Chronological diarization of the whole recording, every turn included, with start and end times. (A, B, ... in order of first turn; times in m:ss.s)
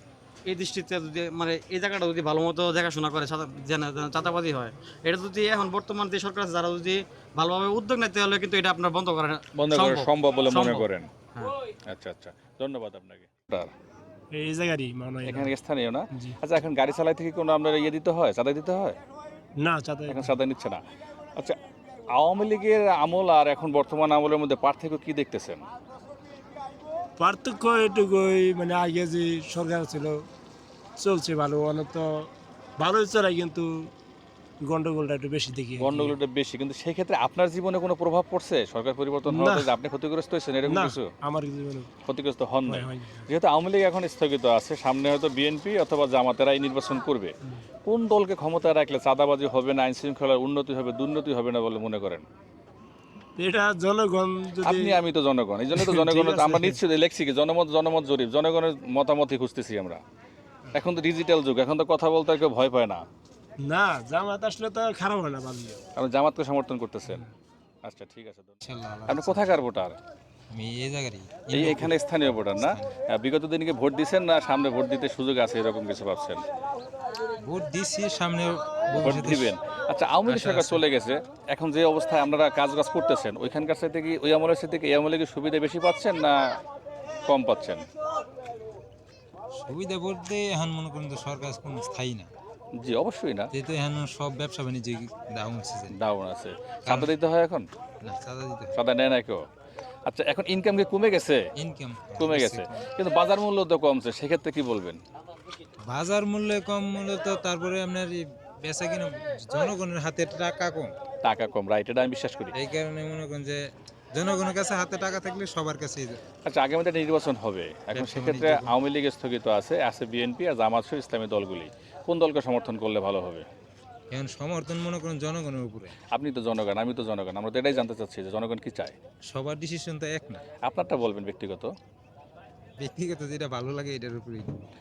0:00.4-0:11.6 A
0:09.6-0:11.1 B
0:11.9-0:13.7 B
0:14.4-0:15.6 C
0:15.2-0:19.0 B
0:19.6-0:20.3 C
0:20.1-0:20.8 B
0:22.1-0:25.6 B
0:27.2-0:30.2 C
0:31.0-0:32.3 C
0:32.8-0:33.9 C
0:34.6-0:36.2 C
0:35.8-0:41.1 B
0:39.2-0:39.7 C
0:40.7-0:41.9 C
0:42.1-0:47.3 B
0:42.7-0:43.2 C
0:47.9-0:52.2 B
0:53.4-0:55.0 C
0:54.6-1:00.0 B
0:55.7-0:56.8 C
1:00.8-1:03.0 B
1:03.7-1:05.8 C
1:06.0-1:07.3 B
1:07.8-1:08.5 B
1:08.6-1:09.6 D
1:09.1-1:10.0 B
1:10.5-1:13.0 D
1:11.5-1:16.4 B
1:17.4-1:19.5 D
1:19.0-1:26.3 B
1:20.3-1:20.8 D
1:27.3-1:27.8 B
1:29.6-1:32.3 D
1:32.8-1:33.5 B
1:33.5-1:35.9 D
1:35.9-1:37.7 B
1:36.8-1:37.1 D
1:38.0-1:38.8 D
1:38.8-1:39.4 B
1:40.1-1:41.4 B
1:41.6-1:42.8 D
1:42.2-1:45.0 B
1:45.9-1:51.0 D
1:51.2-1:52.5 B
1:52.5-1:56.2 D
1:56.4-2:03.4 B
1:57.9-1:58.7 D
2:04.1-2:05.9 D
2:06.1-2:09.0 B
2:09.3-2:10.4 D
2:10.6-2:11.7 B
2:12.8-2:14.6 D